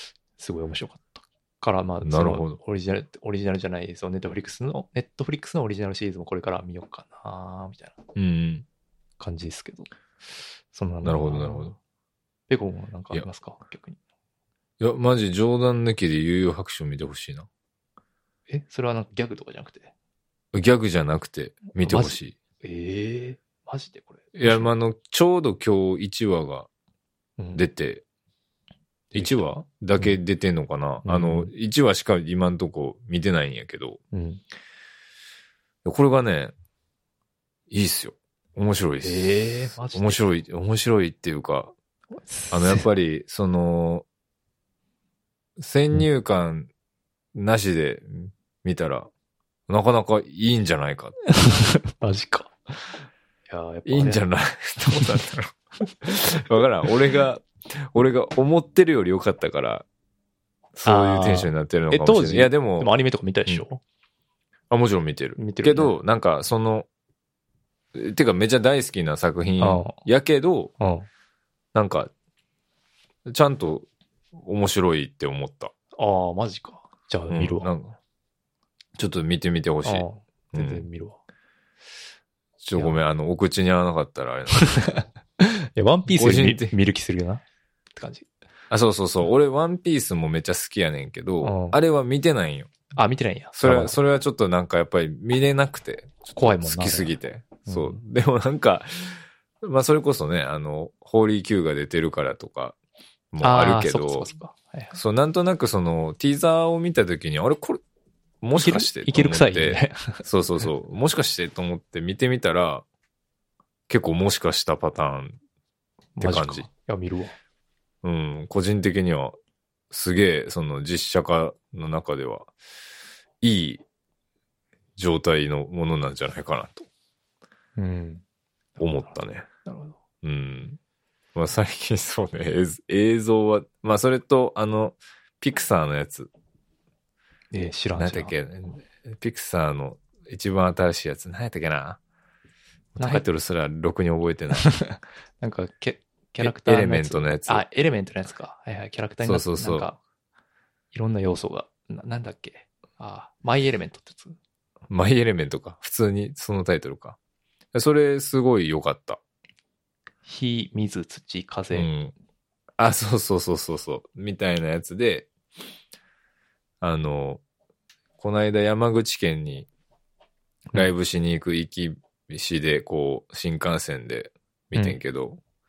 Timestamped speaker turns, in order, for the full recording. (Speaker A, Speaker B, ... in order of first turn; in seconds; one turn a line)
Speaker A: 0.3-8.0
Speaker B: 2.0-2.6
Speaker B: 8.2-8.7
Speaker A: 9.2-9.9
Speaker A: 10.7-11.8
Speaker B: 11.0-11.8
Speaker A: 12.5-14.0
Speaker B: 14.8-17.5
Speaker A: 18.5-19.9
Speaker B: 20.5-22.4
Speaker A: 21.8-24.7
Speaker B: 24.3-26.7
Speaker A: 27.4-27.6
Speaker B: 27.5-28.0
Speaker A: 29.1-29.4
Speaker B: 29.1-34.0
Speaker A: 31.0-31.5
Speaker A: 34.1-34.4
Speaker B: 35.8-36.5
Speaker B: 37.7-41.7
Speaker A: 39.0-40.3
Speaker A: 42.3-42.9
Speaker B: 42.5-44.0
Speaker B: 45.6-46.7
Speaker B: 47.3-49.1
Speaker B: 49.7-51.2
Speaker A: 51.3-54.2
Speaker B: 53.8-59.9
Speaker B: 60.7-62.9
Speaker A: 60.8-63.8
Speaker B: 64.7-66.9
Speaker A: 65.4-65.9
Speaker B: 67.9-70.7
Speaker A: 69.6-70.0
Speaker A: 70.8-71.1
Speaker B: 71.7-72.1
Speaker B: 73.2-75.7
Speaker A: 76.0-77.7
Speaker B: 77.3-78.0
Speaker B: 79.0-80.9
Speaker A: 79.8-81.2
Speaker B: 82.6-84.9
Speaker A: 84.6-87.4
Speaker B: 86.1-86.7
Speaker A: 87.9-88.3
Speaker B: 88.7-92.7
Speaker A: 91.4-91.8
Speaker A: 92.9-94.0
Speaker B: 93.5-102.8
Speaker A: 96.3-98.0
Speaker B: 103.3-104.3
Speaker A: 103.4-105.0
Speaker B: 104.9-107.8
Speaker B: 108.4-112.8
Speaker A: 108.5-110.2
Speaker B: 113.9-115.4
Speaker A: 116.2-117.3
Speaker B: 116.2-116.7
Speaker B: 118.0-119.4
Speaker B: 119.9-122.5
Speaker B: 123.4-123.8
Speaker B: 125.0-126.9
Speaker A: 127.8-128.2
Speaker A: 128.8-129.1
Speaker B: 128.8-129.4
Speaker A: 129.6-130.0
Speaker B: 130.2-130.8
Speaker B: 131.3-136.3
Speaker A: 137.5-138.3
Speaker B: 138.0-142.0
Speaker B: 142.9-144.7
Speaker A: 143.0-143.2
Speaker A: 144.6-150.0
Speaker B: 146.4-147.7
Speaker B: 149.2-149.9
Speaker A: 150.9-154.4
Speaker B: 154.9-157.2
Speaker B: 157.7-159.2
Speaker A: 160.2-161.9
Speaker B: 161.7-162.1
Speaker B: 162.8-165.3
Speaker B: 166.8-167.4
Speaker B: 168.2-169.7
Speaker B: 170.7-175.4
Speaker A: 174.7-175.0